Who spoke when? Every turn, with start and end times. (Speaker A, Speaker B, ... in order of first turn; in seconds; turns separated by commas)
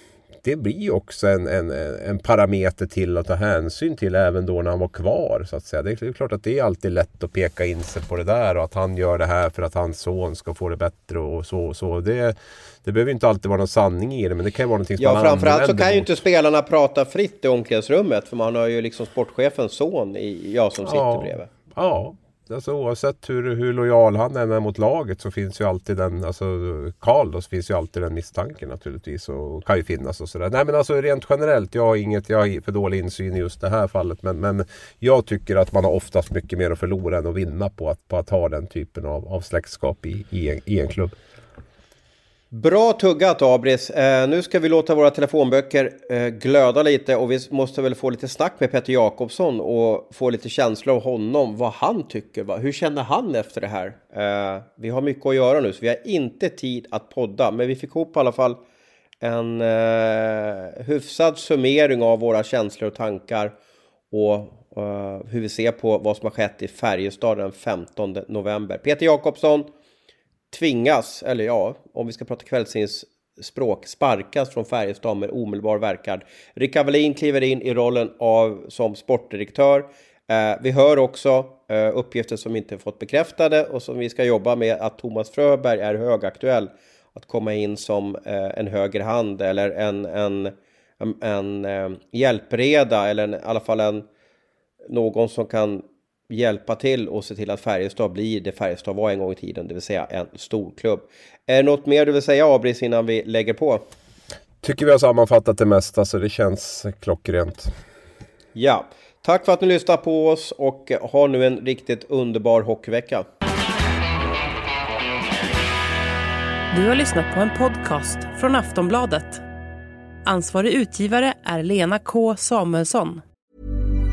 Speaker A: 0.4-16.1, Speaker B: 15.0-21.5, Speaker A: 20.8-41.1, Speaker B: 42.5-58.6, Speaker B: 59.2-63.5, Speaker B: 64.1-69.7, Speaker B: 70.5-94.0, Speaker B: 94.9-103.8, Speaker A: 104.6-107.7, Speaker B: 108.5-113.2, Speaker C: 116.7-119.4, Speaker C: 120.2-123.2